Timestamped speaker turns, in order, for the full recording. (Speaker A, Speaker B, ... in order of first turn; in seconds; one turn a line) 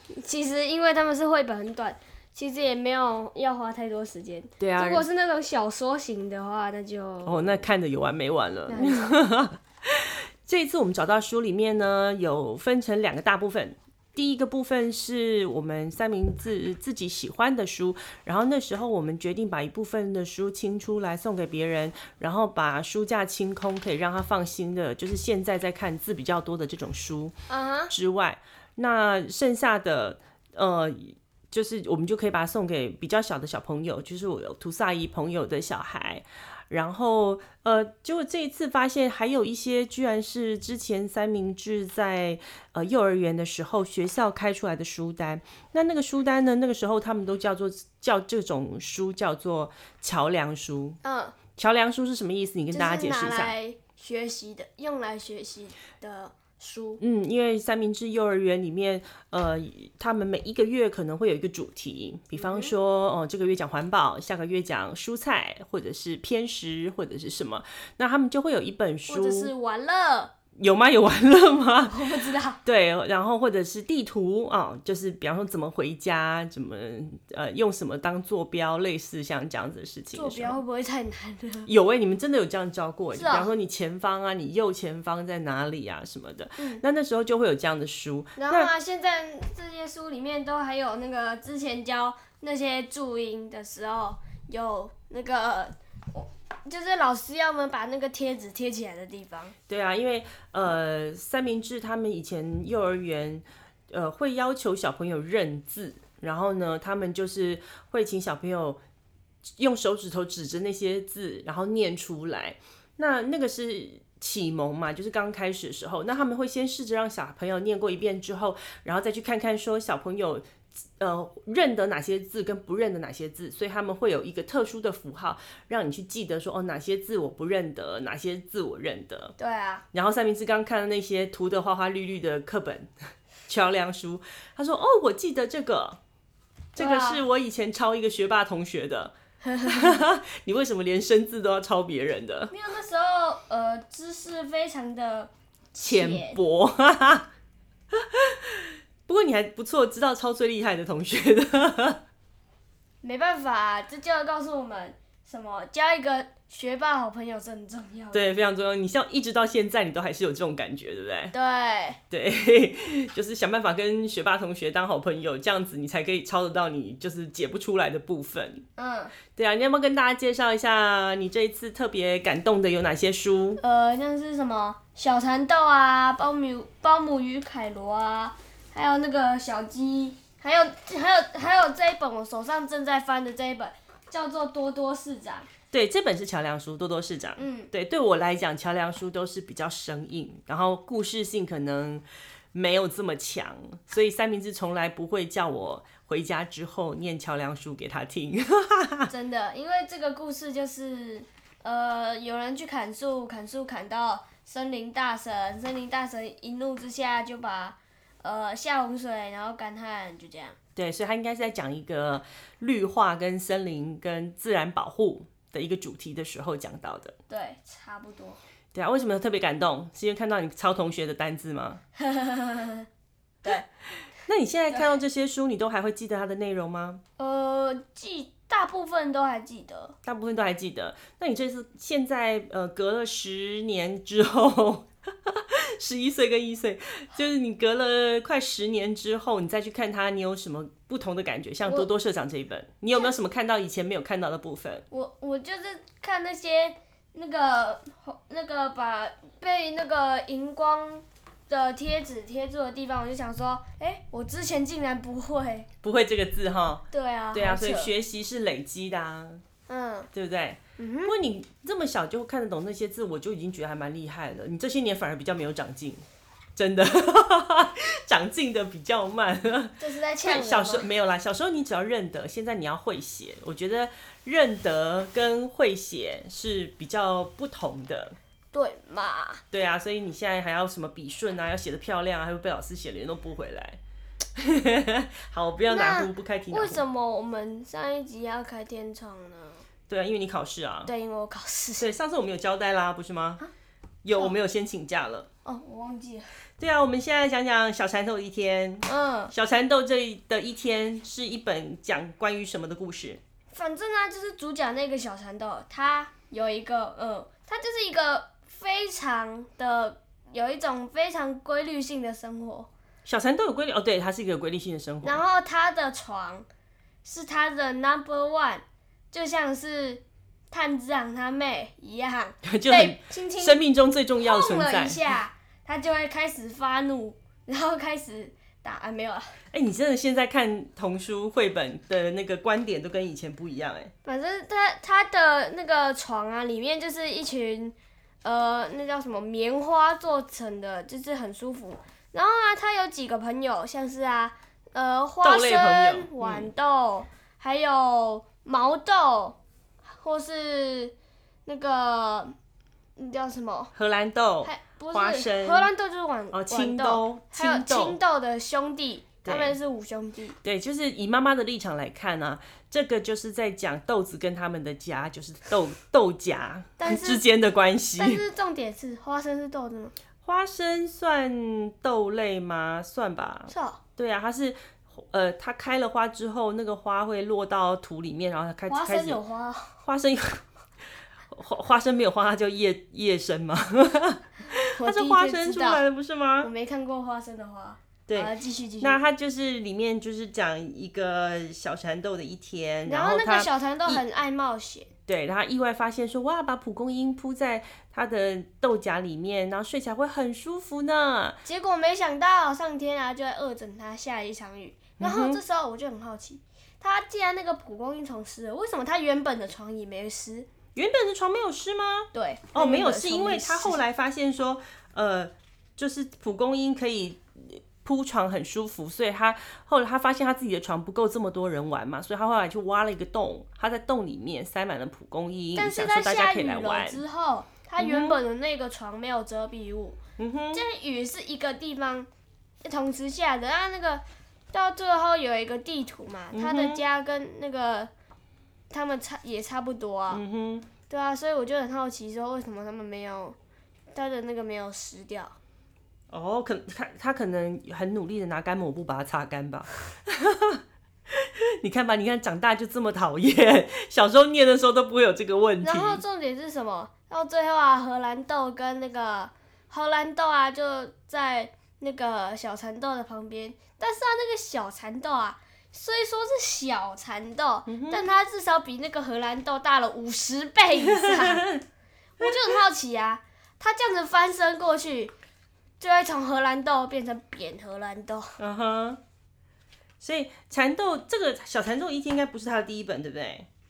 Speaker A: 0.1-7.7
Speaker B: 4.6-5.1
Speaker B: 7.2-27.3
Speaker A: 8.7-9.2
Speaker A: 27.5-27.9
Speaker B: 27.9-51.0
Speaker A: 51.0-51.4
Speaker B: 51.6-53.5
Speaker A: 52.7-57.0
Speaker B: 57.0-69.5
Speaker A: 62.4-62.7
Speaker A: 69.1-70.3
Speaker B: 70.6-72.0
Speaker A: 71.9-72.6
Speaker B: 72.7-80.6
Speaker A: 80.1-81.7
Speaker B: 81.7-88.7
Speaker A: 83.2-83.5
Speaker A: 88.4-99.5
Speaker B: 99.7-108.8
Speaker B: 109.6-120.4
Speaker B: 121.0-129.3
Speaker A: 129.4-129.8
Speaker B: 129.9-132.9
Speaker B: 133.5-136.0
Speaker B: 136.8-139.1
Speaker A: 136.8-137.2
Speaker A: 139.4-140.0
Speaker B: 139.7-142.5
Speaker A: 142.5-146.4
Speaker B: 145.9-147.3
Speaker B: 147.9-152.0
Speaker A: 153.0-158.2
Speaker B: 158.1-161.3
Speaker A: 161.3-162.0
Speaker B: 162.1-168.6
Speaker A: 168.8-169.1
Speaker B: 169.4-173.6
Speaker A: 173.6-185.5
Speaker B: 185.7-199.1
Speaker A: 187.4-187.7
Speaker A: 199.1-210.6
Speaker B: 210.8-217.2
Speaker A: 217.3-218.4
Speaker B: 218.7-221.8
Speaker A: 222.0-222.9
Speaker B: 224.3-227.0
Speaker A: 227.2-229.9
Speaker B: 230.1-244.8
Speaker A: 244.9-255.7
Speaker B: 255.8-259.4
Speaker A: 256.9-257.9
Speaker A: 259.7-260.1
Speaker B: 260.1-266.0
Speaker A: 260.8-261.1
Speaker B: 266.6-278.2
Speaker A: 269.8-270.9
Speaker A: 278.5-279.4
Speaker B: 279.5-283.8
Speaker B: 284.4-286.8
Speaker A: 285.7-289.6
Speaker B: 289.9-290.9
Speaker A: 290.9-291.9
Speaker B: 291.8-293.4
Speaker B: 294.0-295.3
Speaker A: 295.4-296.4
Speaker B: 296.6-303.2
Speaker A: 298.9-299.3
Speaker A: 303.5-312.7
Speaker B: 313.1-315.2
Speaker A: 315.0-316.5
Speaker A: 317.0-323.6
Speaker B: 322.4-325.0
Speaker A: 324.2-329.4
Speaker B: 329.5-333.9
Speaker A: 334.1-349.4
Speaker B: 345.2-346.5
Speaker A: 350.0-350.9
Speaker A: 351.5-352.3
Speaker A: 353.0-353.7
Speaker B: 353.7-355.7
Speaker A: 354.4-360.4
Speaker B: 356.3-358.0
Speaker B: 359.2-359.6
Speaker B: 360.4-368.2
Speaker A: 366.8-367.2
Speaker A: 368.0-369.9
Speaker B: 370.2-379.2
Speaker A: 373.5-373.8
Speaker A: 378.7-379.8
Speaker B: 379.8-380.4
Speaker B: 381.3-386.5
Speaker A: 384.8-385.8
Speaker A: 386.4-389.0
Speaker B: 388.1-394.0
Speaker A: 392.9-394.9
Speaker B: 395.1-401.4
Speaker A: 401.4-410.5
Speaker B: 405.0-405.4
Speaker B: 410.8-427.0
Speaker A: 412.1-413.8
Speaker A: 425.6-430.0
Speaker B: 427.8-428.2
Speaker B: 430.2-430.6
Speaker A: 430.5-432.1
Speaker A: 432.6-437.9
Speaker B: 436.3-436.8
Speaker A: 438.7-440.2
Speaker B: 440.1-440.7
Speaker A: 440.9-443.4
Speaker A: 443.9-445.4
Speaker B: 446.1-456.0
Speaker A: 455.6-471.5
Speaker B: 467.7-468.0
Speaker B: 470.8-471.6
Speaker A: 472.2-475.1
Speaker B: 472.2-472.5
Speaker A: 475.8-478.4
Speaker B: 478.4-479.0
Speaker B: 480.0-483.5